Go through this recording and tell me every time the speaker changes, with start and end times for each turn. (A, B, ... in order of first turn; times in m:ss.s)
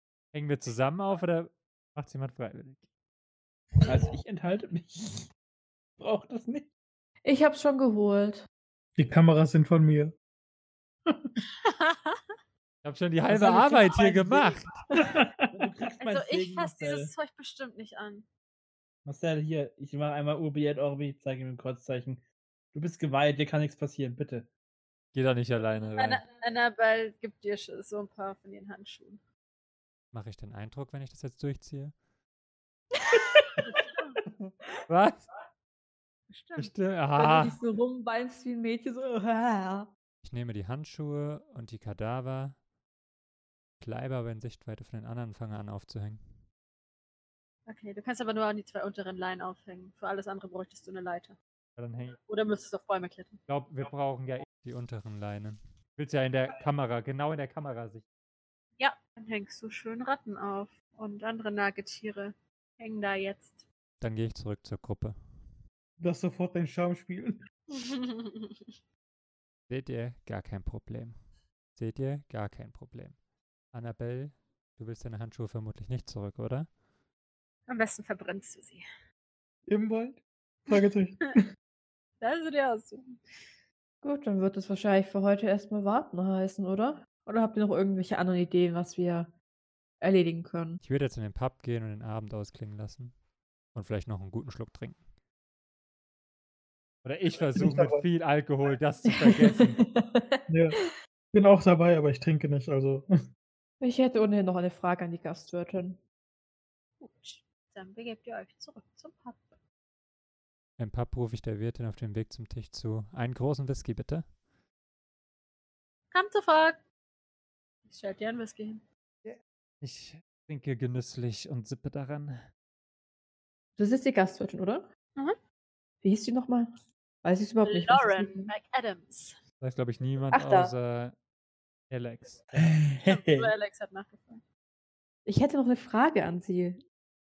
0:00.3-0:02.8 A
0:03.9-0:05.3 B
0:06.0-0:06.7 B
0:07.2-0:08.5 C
0:09.0-0:10.2 D
0:11.6-0:12.2 E
0:12.8-0:14.6 A
0:13.3-0:14.5 B
0:14.9-0:15.7 D
0:15.5-0:17.1 B
0:16.0-0:18.3 E
0:19.0-0:24.5 B
0:25.1-0:26.2 A
0:26.0-0:29.2 E
0:30.1-0:32.0 A
0:33.4-0:35.3 A
0:33.8-0:34.1 E
0:36.3-0:36.7 E
0:36.6-0:37.6 A
0:37.2-0:39.9 C
0:40.2-0:42.6 A
0:43.8-0:46.4 A
0:47.7-0:51.4 E
0:51.8-0:52.2 A
0:52.3-0:53.4 E
0:53.5-0:58.0 A
0:58.8-1:03.7 E
1:04.0-1:05.5 A
1:06.0-1:07.4 D
1:07.7-1:08.8 E
1:09.7-1:11.2 A
1:11.8-1:13.2 A
1:13.7-1:16.7 A
1:17.7-1:18.8 E
1:19.7-1:21.4 D
1:22.2-1:23.5 E
1:24.0-1:29.3 C
1:30.0-1:30.8 C
1:30.8-1:33.2 A
1:33.7-1:35.1 A
1:37.0-1:39.8 A
1:37.6-1:38.0 D
1:39.1-1:40.9 C
1:40.5-1:40.8 D
1:41.3-1:43.0 D
1:43.8-1:46.0 C
1:47.0-1:49.6 E
1:50.8-1:54.3 A
1:56.1-1:56.8 E
1:57.9-1:58.8 E
1:59.2-2:02.4 A
2:03.8-2:04.9 C
2:06.0-2:06.7 C
2:07.2-2:08.5 C
2:07.6-2:09.4 E
2:09.6-2:11.2 A
2:10.3-2:10.7 C
2:11.9-2:12.8 A
2:12.6-2:13.5 B
2:13.1-2:14.4 E
2:15.3-2:16.8 C